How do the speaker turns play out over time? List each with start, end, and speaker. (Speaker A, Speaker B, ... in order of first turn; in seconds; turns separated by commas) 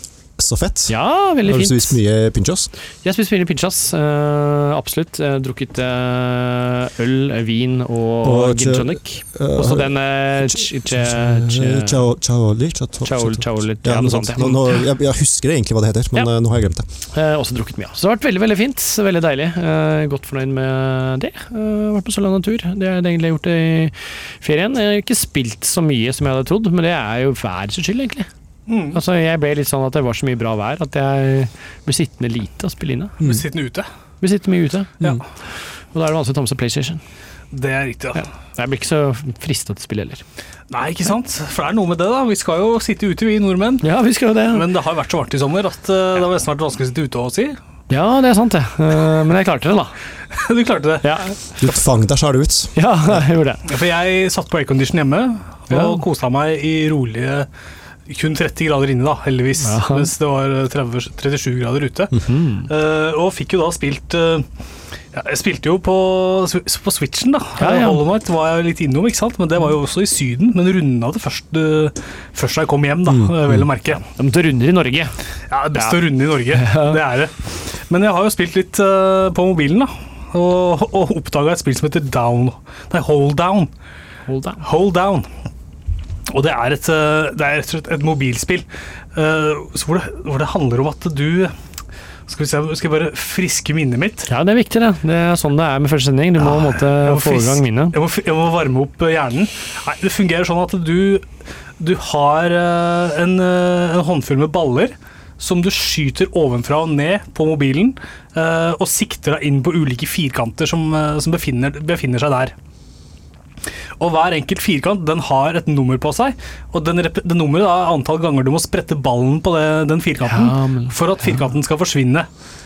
Speaker A: 0.4-2.7, Speaker B: 0.9-1.9, Speaker B: 3.0-12.0, Speaker A: 8.2-16.9, Speaker B: 13.0-14.8, Speaker B: 17.1-28.3, Speaker C: 28.7-29.0, Speaker B: 28.9-33.2, Speaker C: 33.2-33.9, Speaker B: 34.2-37.0, Speaker C: 37.5-38.2, Speaker B: 38.1-40.2, Speaker C: 40.7-43.8, Speaker B: 43.8-44.7, Speaker C: 44.5-47.6, Speaker B: 47.9-50.0, Speaker C: 50.3-51.1, Speaker B: 51.0-51.4, Speaker A: 51.6-52.8, Speaker B: 52.8-53.6, Speaker C: 53.6-57.5, Speaker B: 55.7-56.0, Speaker C: 58.1-64.5, Speaker B: 59.6-60.1, Speaker B: 62.1-62.7, Speaker C: 65.1-74.0, Speaker B: 67.6-68.0, Speaker A: 73.1-73.7, Speaker B: 74.0-75.1, Speaker C: 75.5-83.7, Speaker B: 75.7-77.0, Speaker B: 84.3-84.6, Speaker C: 84.6-85.3, Speaker C: 86.3-91.5, Speaker C: 92.3-94.3, Speaker B: 94.3-97.9, Speaker C: 96.4-101.2, Speaker C: 101.8-112.5, Speaker C: 114.0-122.3, Speaker B: 120.2-121.4